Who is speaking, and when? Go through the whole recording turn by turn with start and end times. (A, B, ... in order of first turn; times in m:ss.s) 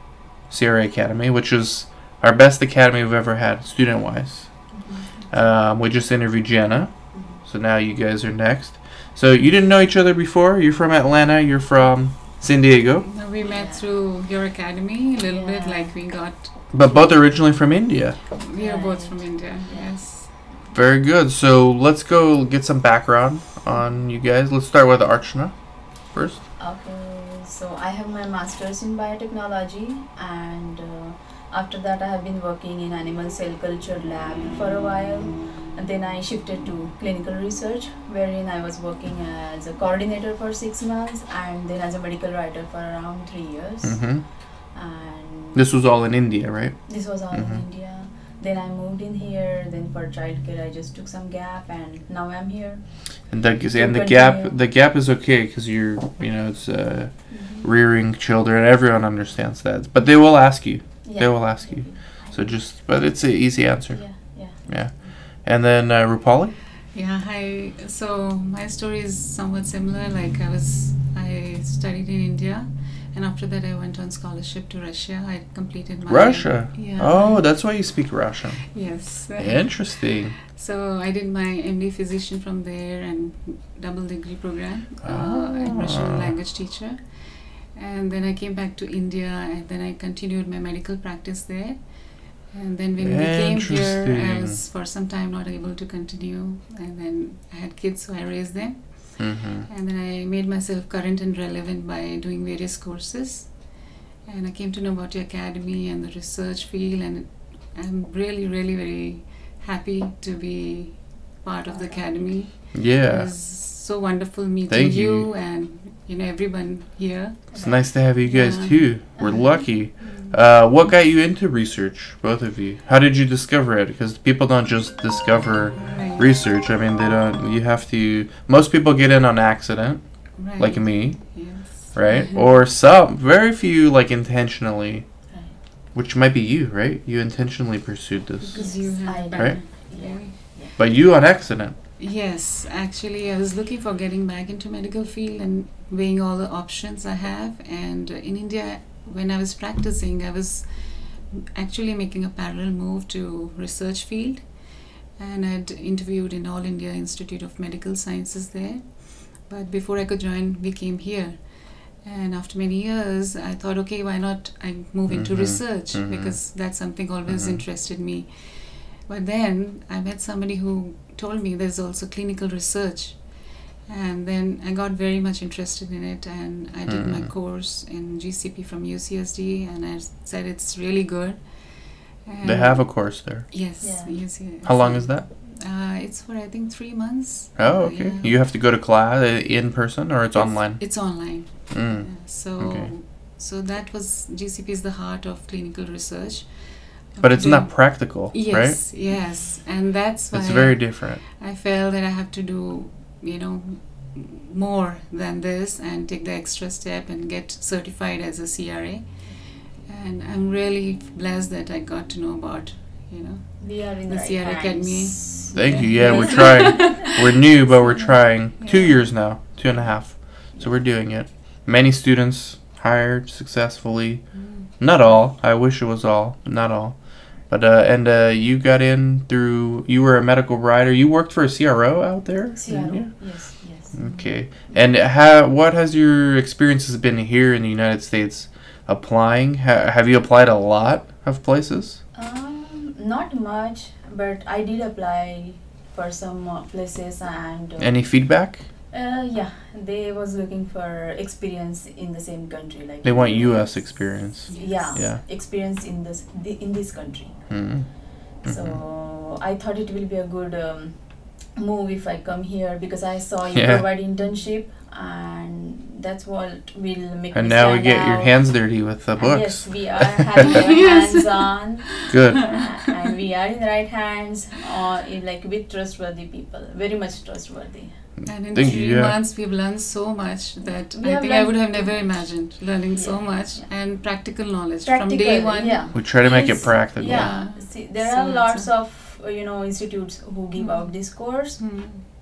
0:00.5-0:13.1 A
0:04.7-0:05.1 B
0:07.1-0:07.4 B
0:13.0-0:16.5 C
0:13.4-0:13.8 B
0:15.2-0:16.0 B
0:16.7-0:18.2 A
0:16.8-0:17.1 B
0:18.3-0:20.4 C
0:18.6-0:19.9 B
0:20.7-0:26.4 A
0:26.6-0:45.7 B
0:43.8-0:44.2 A
0:45.5-0:47.6 A
0:46.9-0:52.8 B
0:53.3-1:06.6 A
0:53.7-0:54.5 B
0:57.3-0:57.6 B
1:01.0-1:02.6 B
1:03.9-1:04.6 B
1:06.9-1:17.5 C
1:16.0-1:20.4 A
1:18.7-1:59.6 C
1:25.0-1:26.4 A
1:33.0-1:34.6 A
1:39.2-1:39.7 A
1:51.7-1:52.0 B
1:52.7-1:53.3 A
1:54.7-1:55.3 A
1:57.5-1:57.9 B
1:57.6-2:15.1 A
2:00.0-2:00.4 B
2:05.8-2:06.3 C
2:10.4-2:12.5 C
2:15.3-2:15.5 B
2:15.9-2:19.6 A
2:18.4-2:20.4 C
2:18.5-2:20.8 B
2:20.7-2:21.8 A
2:22.0-3:08.4 C
2:45.1-2:46.5 A
2:47.3-2:47.6 A
2:56.9-2:57.3 A
3:02.4-3:03.6 A
3:03.8-3:04.2 B
3:04.6-3:05.3 A
3:07.6-3:12.9 A
3:10.3-3:39.1 C
3:17.2-3:18.9 A
3:20.3-3:21.2 A
3:33.6-3:37.1 B
3:35.5-4:02.0 A
3:40.5-3:40.8 B
3:44.3-3:44.7 C
3:52.6-3:54.9 B
4:02.1-4:08.2 B
4:07.8-4:08.6 A
4:08.9-4:17.5 B
4:13.0-4:15.2 A
4:14.5-4:14.8 C
4:17.5-4:18.8 A
4:18.4-4:38.0 B
4:23.5-4:23.8 A
4:27.3-4:30.1 A
4:30.4-4:31.9 C
4:32.1-4:32.6 A
4:38.2-4:39.2 A
4:38.2-4:45.9 C
4:40.6-4:43.7 B
4:44.8-4:51.7 B
4:45.9-4:47.3 A
4:47.0-4:48.7 C
4:50.6-4:52.0 C